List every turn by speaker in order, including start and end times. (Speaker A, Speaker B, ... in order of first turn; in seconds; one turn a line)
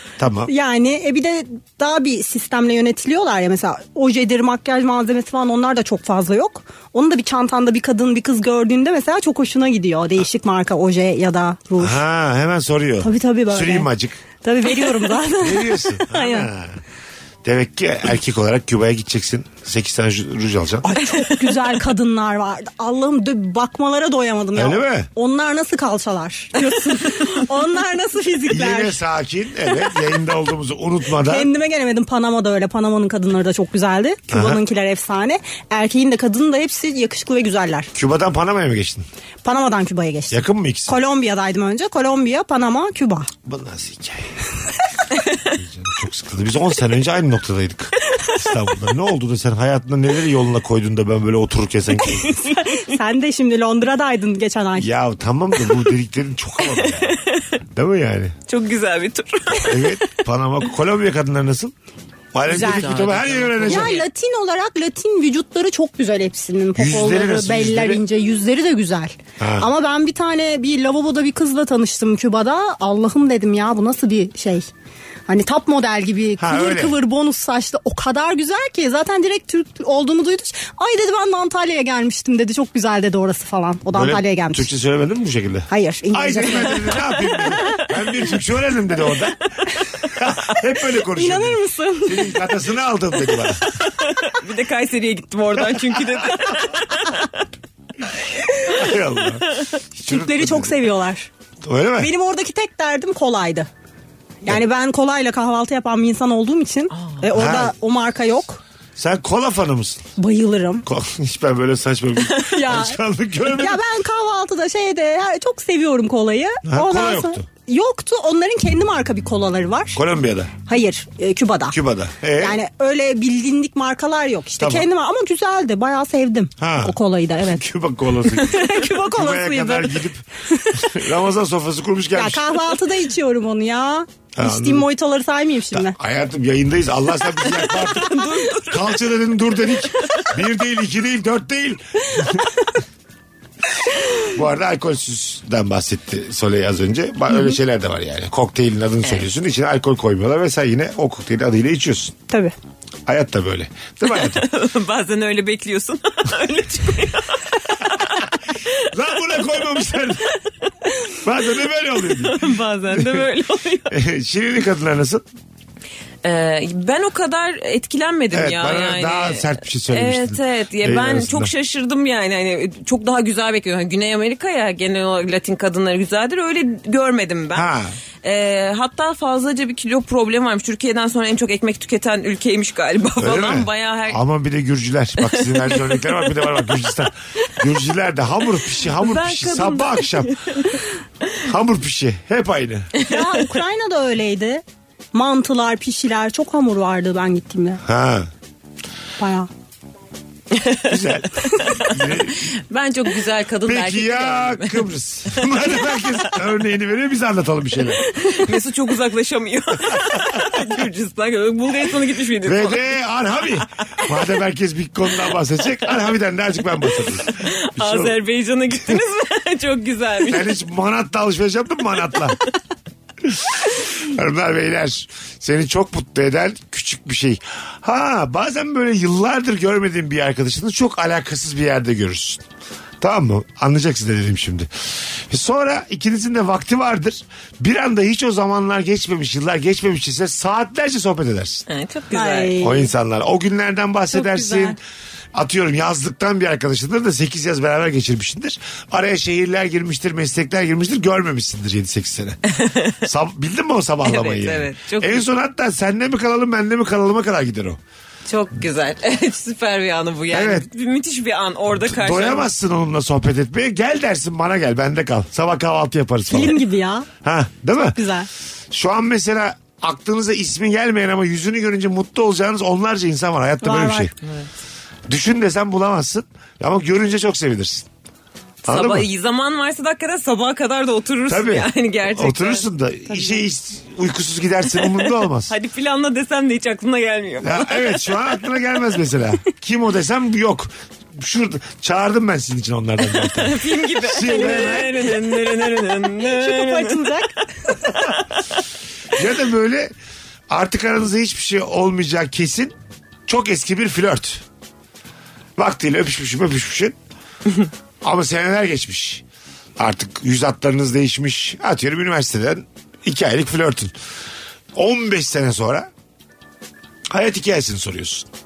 Speaker A: 0.2-0.5
Speaker B: 0.5-12.0
Speaker A: 11.8-14.2
Speaker B: 13.0-13.9
Speaker B: 14.4-16.5
Speaker A: 15.3-16.8
Speaker A: 17.4-20.9
Speaker B: 20.8-29.0
Speaker A: 24.5-25.1
Speaker A: 28.5-31.5
Speaker B: 31.2-37.9
Speaker A: 34.3-34.6
Speaker A: 37.9-39.0
Speaker B: 39.4-43.3
Speaker A: 40.3-41.0
Speaker A: 43.4-44.3
Speaker A: 45.4-52.4
Speaker B: 52.4-54.9
Speaker A: 54.8-57.2
Speaker C: 56.7-57.6
Speaker A: 57.7-58.4
Speaker C: 58.5-60.0
Speaker A: 59.6-61.7
Speaker A: 62.3-64.0
Speaker B: 62.5-62.9
Speaker C: 62.5-64.0
Speaker B: 63.7-74.7
Speaker A: 66.7-68.0
Speaker A: 69.4-69.7
Speaker B: 75.3-84.7
Speaker A: 76.4-77.0
Speaker A: 83.9-89.4
Speaker B: 85.7-87.8
Speaker A: 90.1-93.7
Speaker B: 91.1-92.4
Speaker C: 93.8-97.4
Speaker A: 95.6-96.2
Speaker A: 98.6-100.8
Speaker B: 100.0-101.3
Speaker A: 101.6-102.1
Speaker B: 102.0-103.7
Speaker B: 104.4-108.6
Speaker C: 106.9-107.2
Speaker A: 107.3-107.7
Speaker A: 109.0-110.0
Speaker B: 110.2-110.9
Speaker A: 110.9-113.8
Speaker B: 112.4-120.0
Speaker A: 116.6-117.5
Speaker A: 119.9-120.5
Speaker B: 120.7-121.8
Speaker A: 121.7-122.6
Speaker B: 122.4-127.6
Speaker A: 124.6-124.9
Speaker A: 126.6-132.6
Speaker B: 128.3-130.9
Speaker B: 132.1-136.0
Speaker A: 134.3-134.9
Speaker A: 135.7-142.5
Speaker C: 137.4-139.0
Speaker C: 139.9-140.3
Speaker A: 144.2-152.2
Speaker B: 152.3-152.5
Speaker A: 153.1-154.4
Speaker C: 154.1-158.9
Speaker A: 158.9-160.3
Speaker A: 161.2-163.3
Speaker C: 162.1-164.0
Speaker A: 163.9-165.2
Speaker C: 166.2-177.7
Speaker A: 168.3-171.5
Speaker A: 177.5-177.9
Speaker C: 178.2-184.2
Speaker A: 183.2-190.3
Speaker C: 185.2-186.8
Speaker C: 188.8-190.9
Speaker A: 191.4-192.9
Speaker C: 193.0-193.4
Speaker B: 193.0-197.8
Speaker A: 197.8-198.3
Speaker B: 199.2-199.5
Speaker C: 200.5-200.9
Speaker A: 200.9-202.5
Speaker C: 201.5-204.9
Speaker A: 203.7-208.1
Speaker C: 205.4-206.2
Speaker C: 208.1-212.9
Speaker A: 212.4-218.1
Speaker C: 217.3-220.6
Speaker A: 220.3-222.4
Speaker A: 223.2-232.4
Speaker A: 233.0-241.7
Speaker C: 241.7-242.6
Speaker B: 242.1-242.9
Speaker A: 242.6-244.8
Speaker B: 244.1-244.8
Speaker A: 245.3-252.4
Speaker C: 252.5-253.0
Speaker A: 253.0-257.8
Speaker C: 254.0-255.2
Speaker C: 258.2-262.5
Speaker A: 260.3-260.7
Speaker A: 261.8-266.6
Speaker B: 266.3-267.1
Speaker A: 267.2-268.0
Speaker B: 267.9-268.3
Speaker A: 268.7-274.1
Speaker B: 273.6-274.1
Speaker C: 274.2-274.5
Speaker A: 275.1-277.9
Speaker C: 278.6-282.7
Speaker A: 278.7-279.1
Speaker A: 281.3-285.5
Speaker C: 284.8-288.0
Speaker A: 287.4-295.1
Speaker C: 293.1-297.2
Speaker B: 296.1-297.8
Speaker A: 299.1-299.9
Speaker A: 300.5-302.7
Speaker A: 303.3-304.4
Speaker A: 305.6-307.0
Speaker A: 308.0-309.2
Speaker A: 309.8-313.9
Speaker A: 314.7-315.9
Speaker A: 317.1-318.3